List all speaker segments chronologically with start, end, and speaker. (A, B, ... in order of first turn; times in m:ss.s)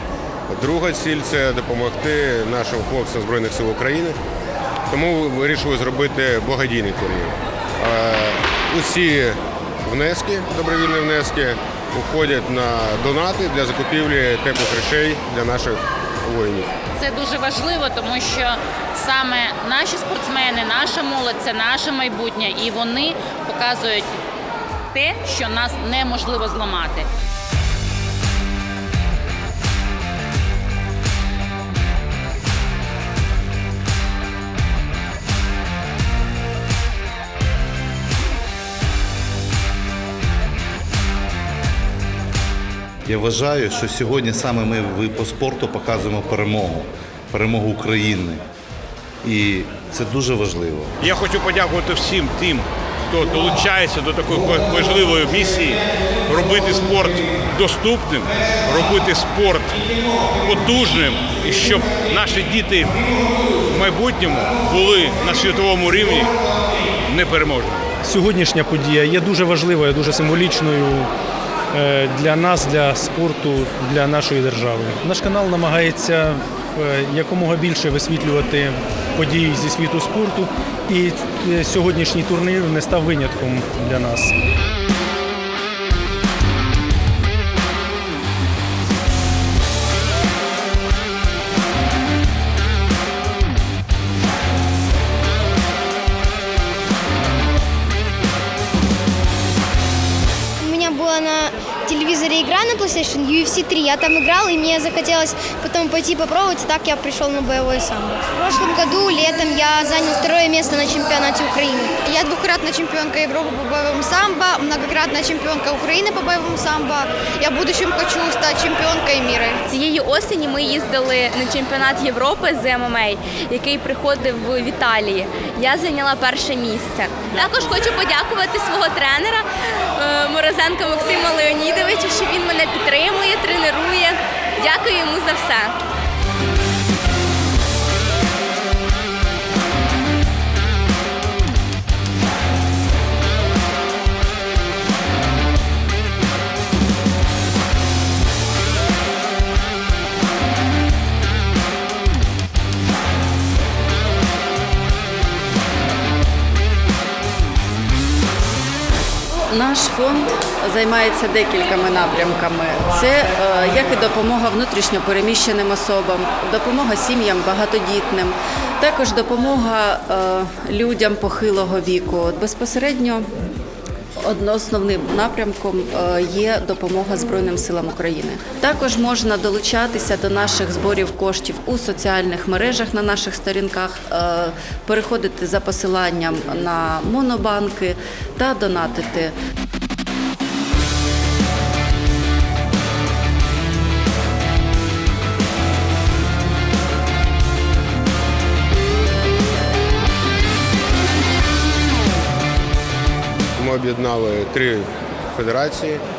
0:00.5-0:04.2 A
0:04.9-0:16.7 A
0:17.0-0:24.1 B
0:24.9-0:27.1 B
0:43.1-0:48.4 C
0:49.2-0:50.9 C
0:51.0-0:59.7 D
1:00.4-1:03.0 D
1:03.6-1:06.3 D
1:07.0-1:07.9 D
1:08.0-1:11.1 E
1:11.7-1:24.3 E
1:40.6-1:51.9 F
1:52.0-1:59.6 G
1:59.7-2:15.7 H
2:39.5-2:53.2 I
2:54.2-3:09.3 I
3:23.6-3:26.0 A